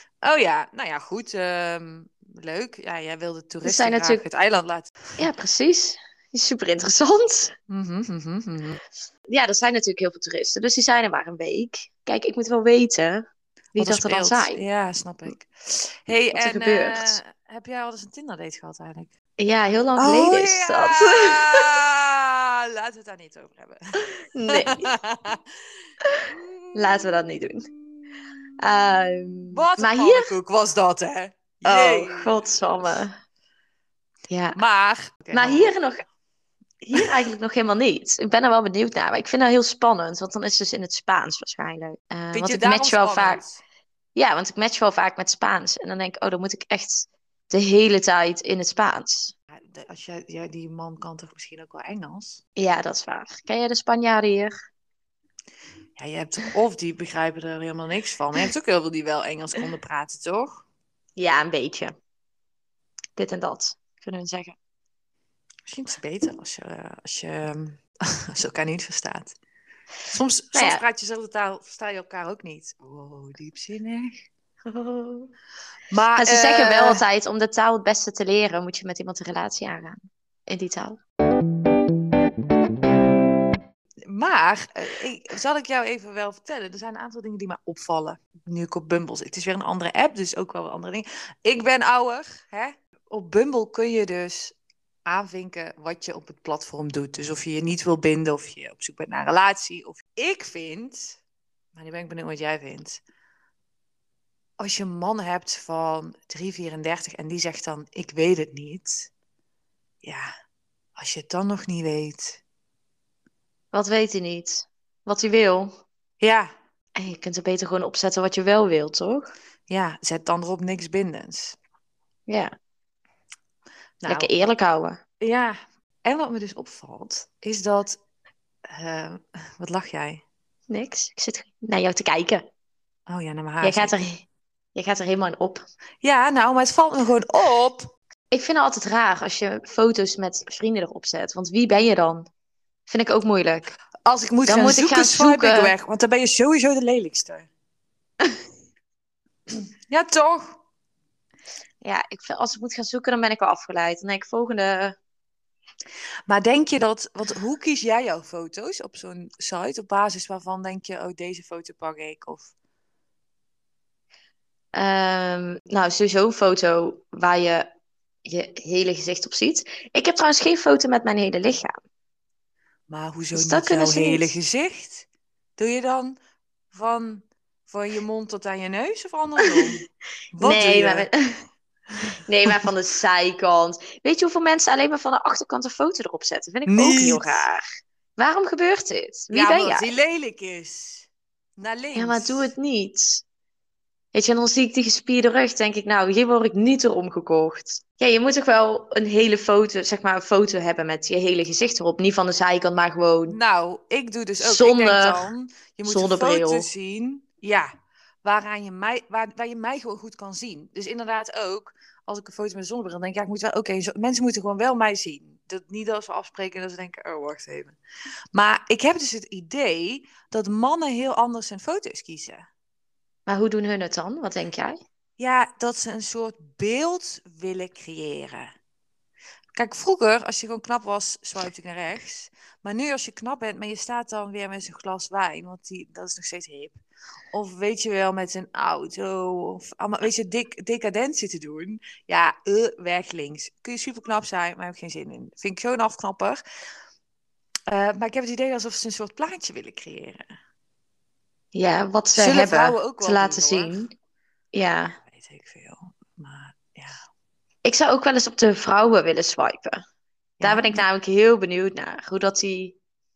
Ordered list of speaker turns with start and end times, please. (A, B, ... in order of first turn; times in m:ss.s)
0:00.2-0:05.0 A
0:03.6-0:04.2 B
0:05.2-0:07.5 B
0:07.7-0:08.8 A
0:09.3-0:13.2 B
0:13.8-0:14.6 B
0:13.8-0:19.1 A
0:16.3-0:17.2 B
0:19.4-0:21.7 B
0:20.0-0:25.4 A
0:24.0-0:24.9 B
0:26.2-0:33.0 A
0:26.7-0:27.6 B
0:28.6-0:30.3 B
0:31.6-0:33.1 B
0:34.3-0:34.6 B
0:34.5-0:35.7 A
0:35.3-0:36.0 B
0:36.8-0:43.4 B
0:42.3-0:43.6 A
0:44.1-0:49.3 B
0:49.5-0:52.4 A
0:52.6-0:54.5 B
0:56.0-1:00.6 A
1:01.2-1:01.9 B
1:03.2-1:04.6 B
1:05.7-1:09.4 A
1:10.1-1:14.2 A
1:10.5-1:10.8 B
1:14.6-1:15.3 B
1:15.9-1:17.0 A
1:16.2-1:21.0 B
1:24.1-1:34.5 A
1:35.0-1:41.2 A
1:41.7-1:43.0 A
1:44.6-1:49.1 A
1:51.0-1:52.4 A
1:53.7-1:55.7 B
1:56.2-1:56.5 A
1:57.0-1:59.3 B
1:59.7-2:01.6 A
2:04.0-2:04.3 A
2:04.1-2:05.0 B
2:05.2-2:08.0 A
2:08.7-2:10.2 A
2:10.7-2:12.4 B
2:13.1-2:13.9 A
2:13.6-2:15.6 B
2:16.0-2:17.9 A
2:18.3-2:22.3 B
2:22.9-2:23.7 B
2:24.0-2:27.5 A
2:24.4-2:25.7 B
2:29.5-2:30.6 A
2:31.8-2:35.0 B
2:36.3-2:42.5 A
2:44.7-2:47.7 B
2:48.2-2:51.7 B
2:52.9-2:56.2 A
2:53.3-2:54.3 B
2:56.7-2:59.8 A
2:59.4-2:59.8 B
3:00.3-3:01.1 A
3:00.4-3:01.1 B
3:02.3-3:07.6 B
3:06.7-3:07.4 A
3:08.2-3:09.9 B
3:09.3-3:12.5 A
3:11.9-3:13.2 B
3:14.1-3:23.4 B
3:23.3-3:27.7 A
3:24.4-3:25.2 B
3:25.8-3:26.7 B
3:28.2-3:37.8 A
3:38.3-3:42.4 A
3:43.3-3:44.8 B
3:45.2-3:48.5 A
3:49.5-3:56.8 A
3:57.3-4:06.4 A
4:07.7-4:10.3 A
4:11.5-4:13.9 B
4:12.1-4:13.8 A
4:14.5-4:15.0 B
4:15.0-4:17.0 A
4:17.6-4:19.8 B
4:20.4-4:20.8 A
4:20.4-4:22.8 B